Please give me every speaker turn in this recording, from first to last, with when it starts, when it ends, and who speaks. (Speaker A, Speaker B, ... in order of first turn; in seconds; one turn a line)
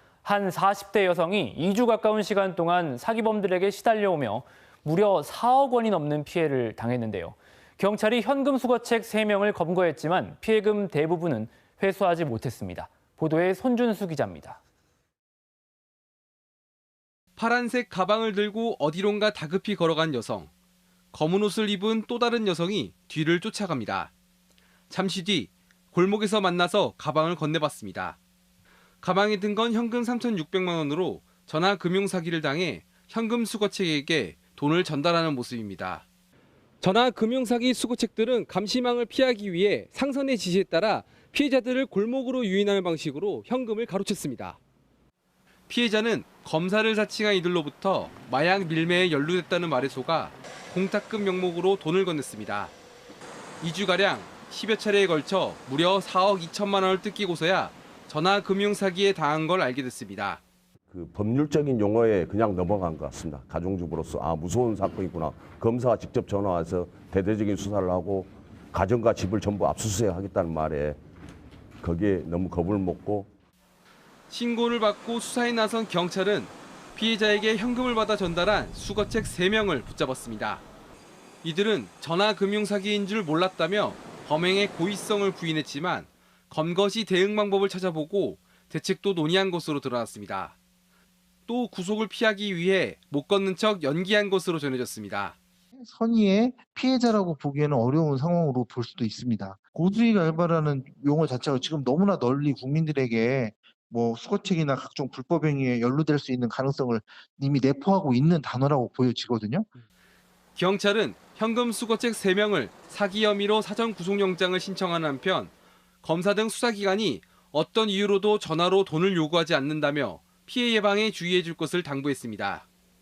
Speaker A: 0.2-14.6
Speaker B: 17.4-20.5
Speaker B: 21.1-24.1
Speaker B: 24.9-28.2
Speaker B: 29.0-36.0
Speaker B: 36.8-44.6
Speaker B: 45.7-52.7
Speaker B: 53.6-60.4
Speaker C: 60.9-71.0
Speaker C: 71.8-73.3
Speaker B: 74.3-80.6
Speaker B: 81.4-90.6
Speaker B: 91.5-95.4
Speaker D: 95.8-109.7
Speaker B: 110.6-122.7